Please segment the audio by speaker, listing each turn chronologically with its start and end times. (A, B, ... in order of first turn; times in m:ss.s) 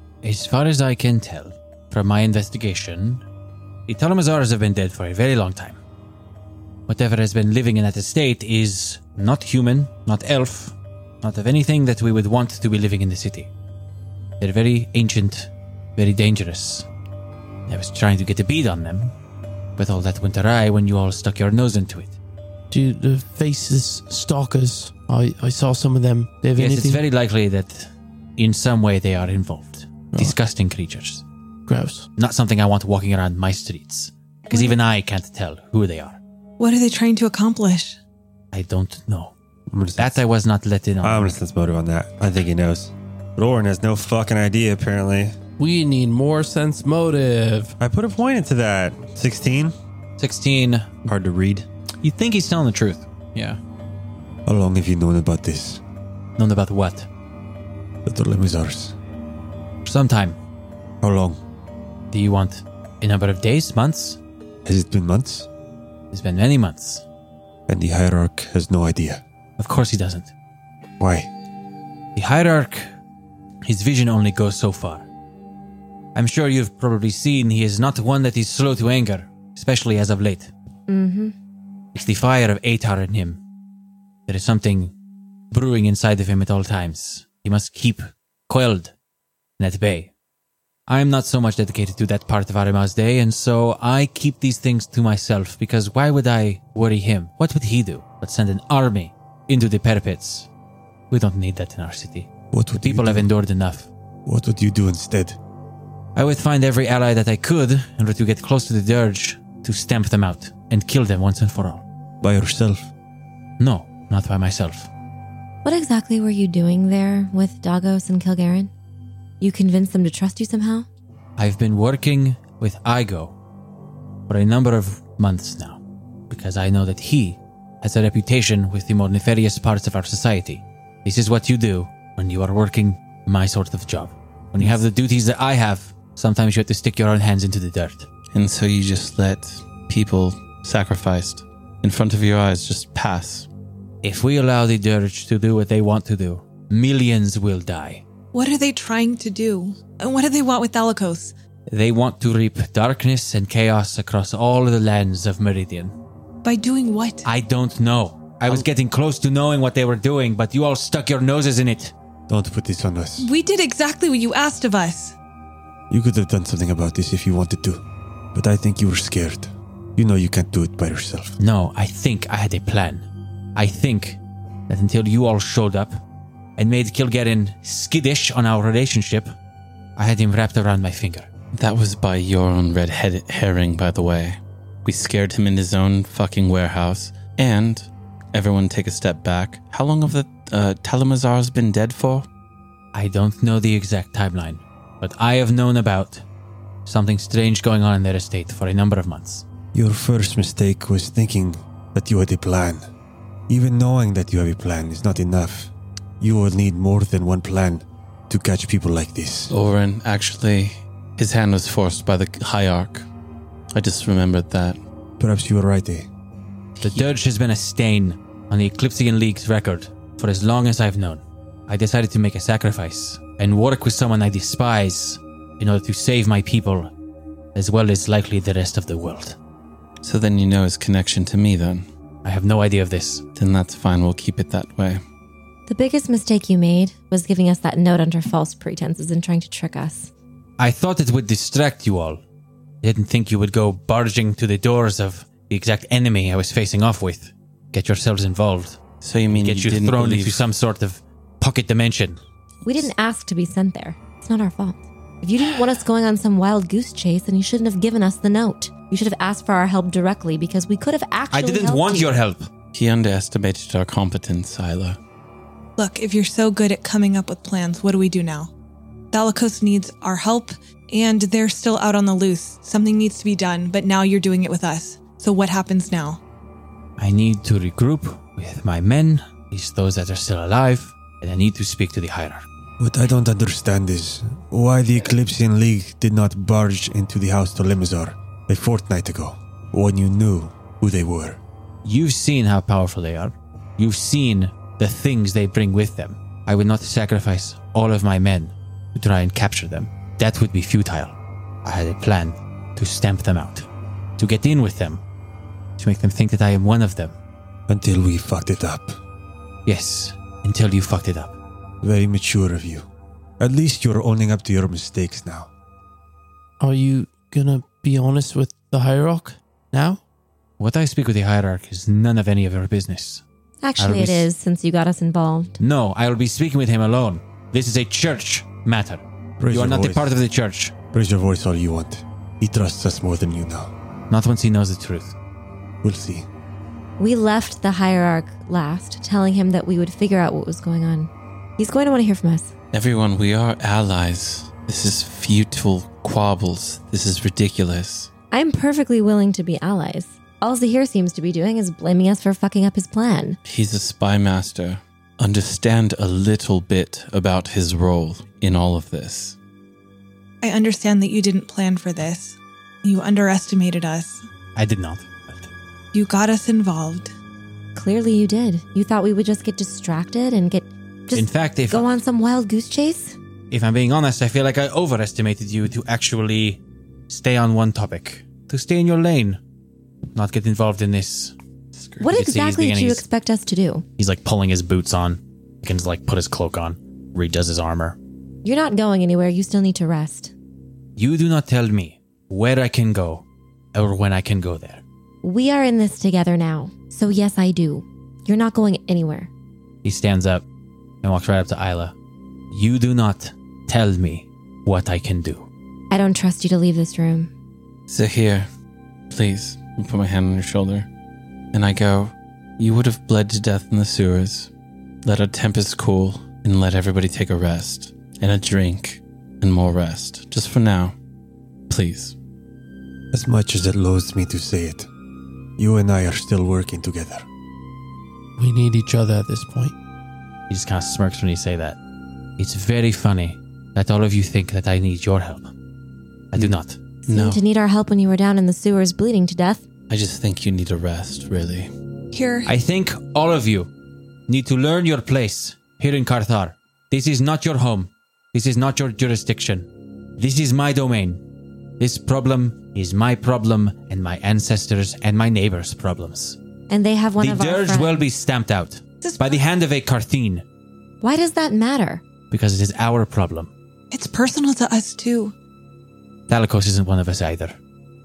0:00.2-0:03.2 A
0:03.9-0:05.8 A
0:06.9-0:13.5 A
0:14.4-0:16.9 A
0:17.7-0:19.1 A
0:19.8-0:22.2 A
0:22.7-0:27.0 B
0:26.6-0:31.2 A
0:31.7-0:32.1 B
0:32.2-0:36.2 A
0:36.6-0:38.0 C
0:38.5-0:39.3 A
0:39.7-0:40.2 D
0:40.0-0:41.4 A
0:41.0-0:45.3 D
0:45.6-0:47.8 B
0:47.8-0:49.7 D
0:50.2-0:51.1 A
0:51.1-0:51.7 D
0:52.0-0:53.6 A
0:54.5-0:55.8 E
0:56.4-0:57.1 A
0:58.1-0:58.9 E
0:59.8-1:00.4 A
1:01.0-1:01.3 E
1:02.1-1:04.2 A
1:04.7-1:05.5 E
1:06.1-1:07.0 A
1:07.7-1:09.2 E
1:09.6-1:10.3 A
1:12.2-1:12.9 A
1:13.6-1:15.0 A
1:16.2-1:20.5 A
1:20.9-1:21.4 F
1:22.0-1:23.4 A
1:24.3-1:24.9 A
1:25.5-1:28.9 A
1:29.6-1:30.1 A
1:30.9-1:40.5 A
1:41.1-1:43.9 A
1:42.5-1:43.3 E
1:44.3-1:45.4 E
1:46.2-1:51.8 A
1:52.2-1:52.7 D
1:52.2-1:52.8 E
1:53.6-1:54.9 A
1:55.6-1:58.7 F
1:59.4-2:00.9 F
2:01.4-2:03.4 A
2:04.3-2:18.1 A
2:18.3-2:23.5 G
2:24.0-2:28.0 A
2:28.3-2:31.3 C
2:31.7-2:36.0 A
2:36.4-2:37.3 C
2:37.2-2:41.9 A
2:42.3-2:43.3 E
2:43.2-2:45.2 C
2:45.9-2:47.8 E
2:48.3-2:51.4 E
2:51.4-2:56.0 A
2:56.6-2:59.3 A
3:00.0-3:01.3 A
3:01.5-3:12.3 G
3:12.9-3:16.2 A
3:16.9-3:19.4 A
3:19.7-3:22.8 E
3:23.5-3:29.5 E
3:29.5-3:33.1 G
3:33.7-3:34.8 G
3:35.2-3:36.1 E
3:36.8-3:37.1 G
3:36.8-3:46.9 A
3:47.6-3:49.4 A
3:50.0-3:51.9 G
3:52.2-3:53.2 A
3:53.4-3:55.0 G
3:55.7-4:00.1 F
4:00.6-4:02.2 A
4:02.8-4:08.8 A
4:09.0-4:10.5 G
4:09.3-4:12.2 A
4:12.6-4:22.1 F
4:21.3-4:22.5 A
4:22.8-4:25.0 G
4:25.8-4:28.5 C
4:29.1-4:36.2 C
4:37.0-4:42.4 A
4:42.8-4:51.4 E
4:51.8-5:03.7 A
5:04.2-5:05.0 A
5:05.8-5:07.2 A
5:07.7-5:09.0 E
5:09.7-5:11.4 A
5:11.8-5:12.9 E
5:13.4-5:15.5 E
5:16.6-5:20.0 B
5:20.6-5:23.2 A
5:23.6-5:25.6 F
5:23.8-5:24.3 A
5:25.6-5:30.7 A
5:29.4-5:30.1 E
5:30.9-5:33.7 E
5:34.1-5:35.2 A
5:35.8-5:36.3 E
5:37.0-5:42.5 F
5:42.7-5:48.1 G
5:48.3-5:53.4 F
5:53.5-5:59.4 G
6:00.4-6:04.2 C
6:04.6-6:05.5 A
6:05.9-6:07.1 C
6:07.8-6:13.2 F
6:11.1-6:11.9 A
6:13.5-6:19.4 A
6:20.2-6:21.4 A
6:21.7-6:22.1 G
6:22.0-6:23.9 F
6:22.1-6:23.0 A
6:24.0-6:28.0 A
6:28.4-6:30.3 F
6:31.0-6:34.8 A
6:35.2-6:39.3 F
6:39.8-6:40.4 A
6:41.0-6:42.0 A
6:42.5-6:45.5 A
6:45.9-6:47.3 F
6:47.9-6:48.5 G
6:49.1-6:50.9 G
6:51.5-6:54.5 G
6:55.0-7:00.9 G
7:01.7-7:02.2 G
7:03.1-7:04.9 E
7:05.6-7:07.3 E
7:08.4-7:09.8 B
7:10.5-7:11.8 A
7:12.4-7:15.5 A
7:16.3-7:16.8 A
7:17.1-7:17.4 G
7:17.1-7:19.6 F
7:19.9-7:21.7 G
7:22.1-7:22.5 C
7:22.5-7:23.7 A
7:24.3-7:31.2 A
7:31.8-7:36.4 A
7:36.7-7:38.0 F
7:37.2-7:40.4 A
7:39.0-7:39.4 C
7:41.0-7:42.0 F
7:42.3-7:43.5 A
7:43.9-7:45.3 C
7:46.3-7:47.6 A